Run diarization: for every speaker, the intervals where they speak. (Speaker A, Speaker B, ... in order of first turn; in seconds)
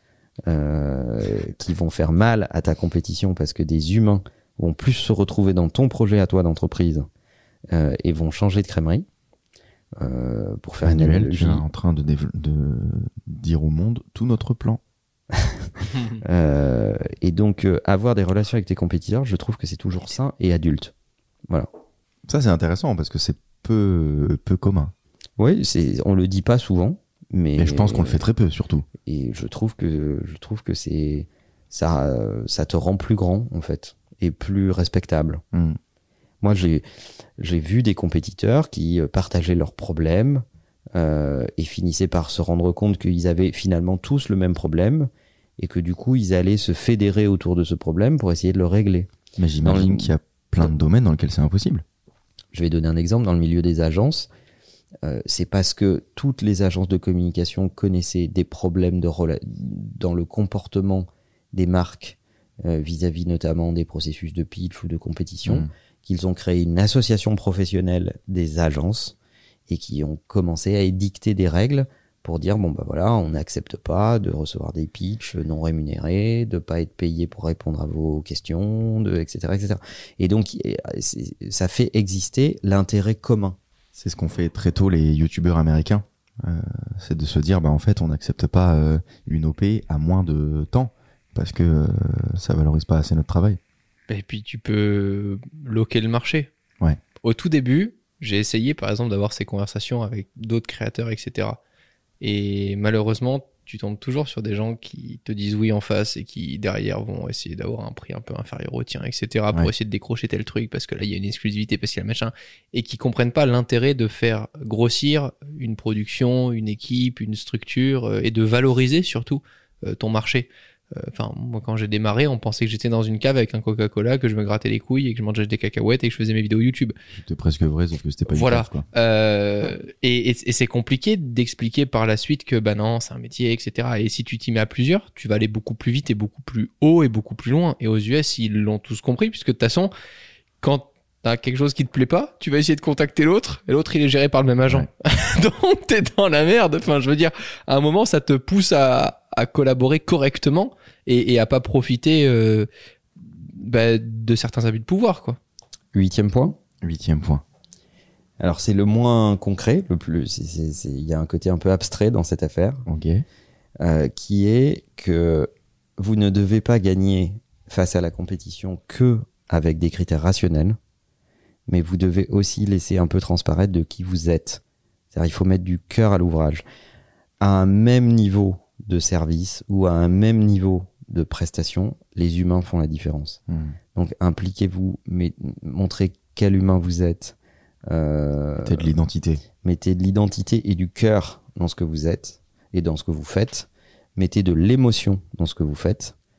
Speaker A: 0.5-7.1, 7.7-9.1, 10.0-11.6, 15.3-20.9, 25.4-28.2, 29.0-35.4, 36.4-36.8, 37.4-40.4, 40.9-49.1, 49.6-50.7, 52.5-54.3, 55.0-69.2, 69.7-83.6, 155.9-156.6, 158.4-162.8, 163.8-170.8, 171.7-174.6, 175.1-176.6, 177.4-183.4, 183.9-187.3, 187.9-188.9, 189.6-196.1
Speaker B: 10.8-14.8, 22.3-24.9, 27.6-28.9, 35.5-35.8, 49.4-51.8, 84.0-93.6, 127.1-128.8, 156.8-157.4, 162.9-163.2, 183.5-183.8, 188.6-189.4
Speaker C: 94.1-96.5, 97.2-101.6, 102.2-126.9, 128.3-139.9, 140.6-152.7, 153.2-155.4